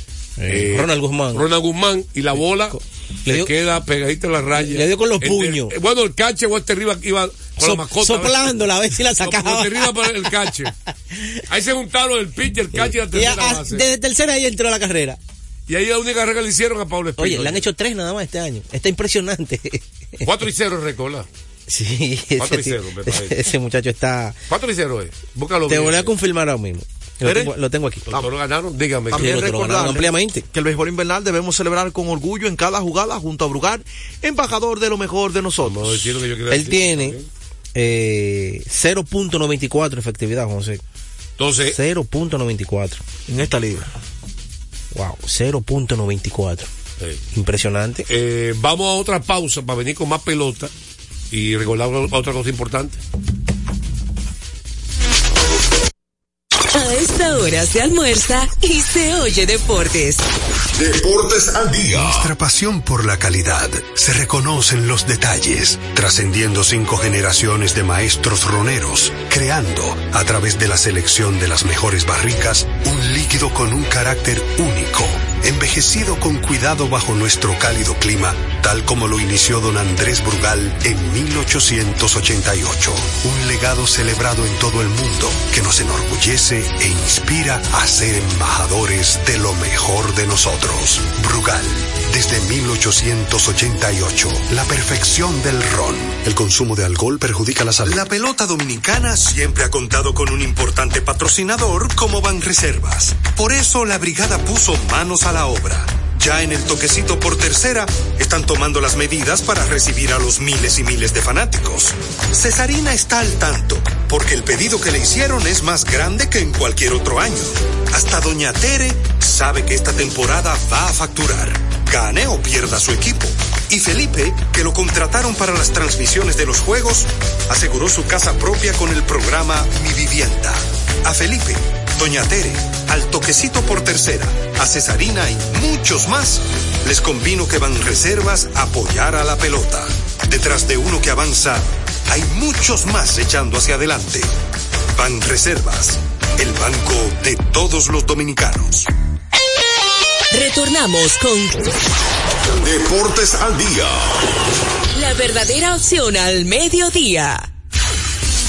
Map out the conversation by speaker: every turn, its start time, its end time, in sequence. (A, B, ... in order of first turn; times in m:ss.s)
0:00.4-0:01.4 A
0:00.5-0:08.6 B
0:02.7-0:03.5 A
0:04.5-0:05.7 A
0:07.6-0:10.5 A
0:09.2-0:10.7 B
0:11.5-0:13.8 B
0:12.7-0:15.2 A
0:15.7-0:17.6 B
0:17.2-0:20.2 A
0:20.2-0:21.3 B
0:21.7-0:24.4 A
0:22.4-0:23.4 B
0:24.5-0:26.1 B
0:25.7-0:28.1 A
0:27.2-0:27.5 C
0:28.1-0:29.5 B
0:29.1-0:36.1 C
0:29.1-0:30.4 A
0:35.6-0:37.3 B
0:36.5-0:37.2 A
0:37.7-0:40.8 A
0:41.4-0:41.8 B
0:41.7-0:43.0 A
0:43.3-0:43.9 C
0:44.9-0:46.7 A
0:47.3-0:48.1 A
0:48.1-0:50.7 B
0:51.3-0:53.0 B
0:56.7-1:00.2 D
1:00.8-1:02.3 E
1:01.9-2:24.3 F
2:24.9-2:28.9 F
2:30.3-2:31.7 D
2:32.4-2:34.3 E
2:34.9-2:37.5 D